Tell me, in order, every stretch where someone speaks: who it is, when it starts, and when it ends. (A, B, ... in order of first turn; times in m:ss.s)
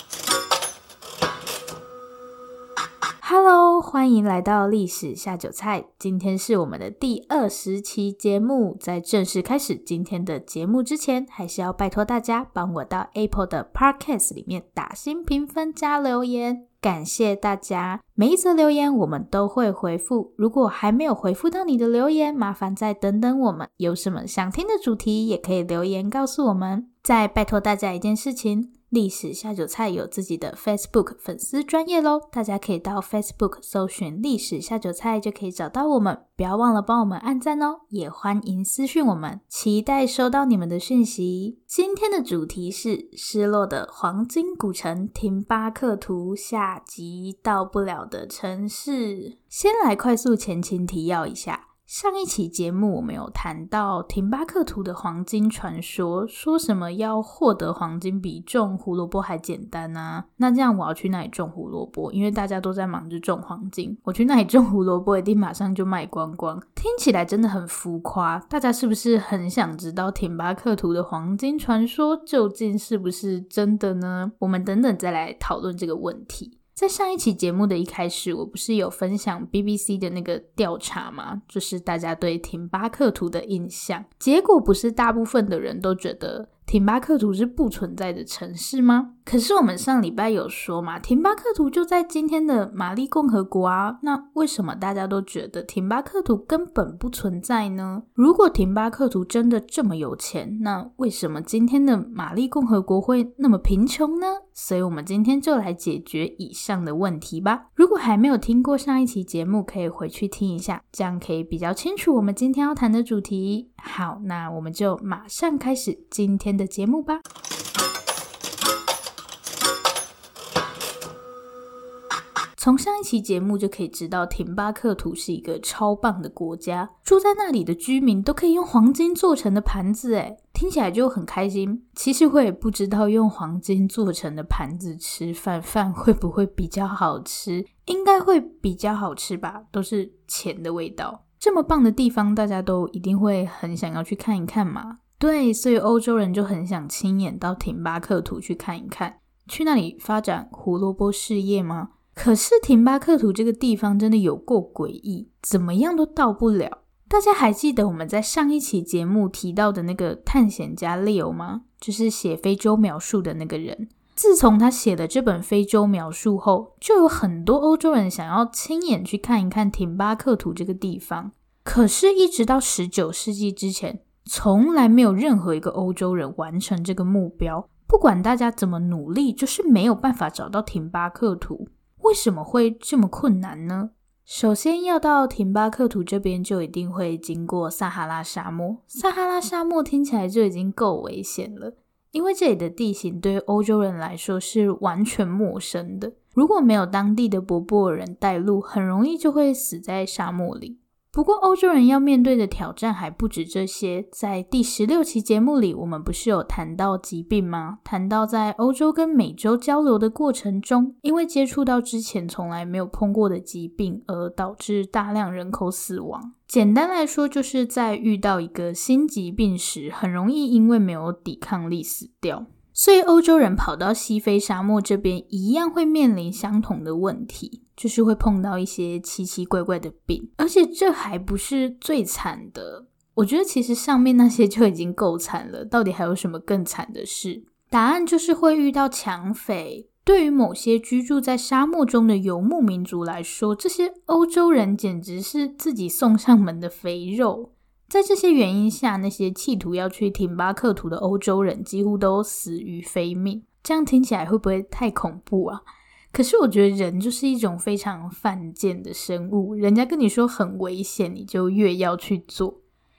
0:03.2-1:57.2 A
2:02.6-4:22.6 A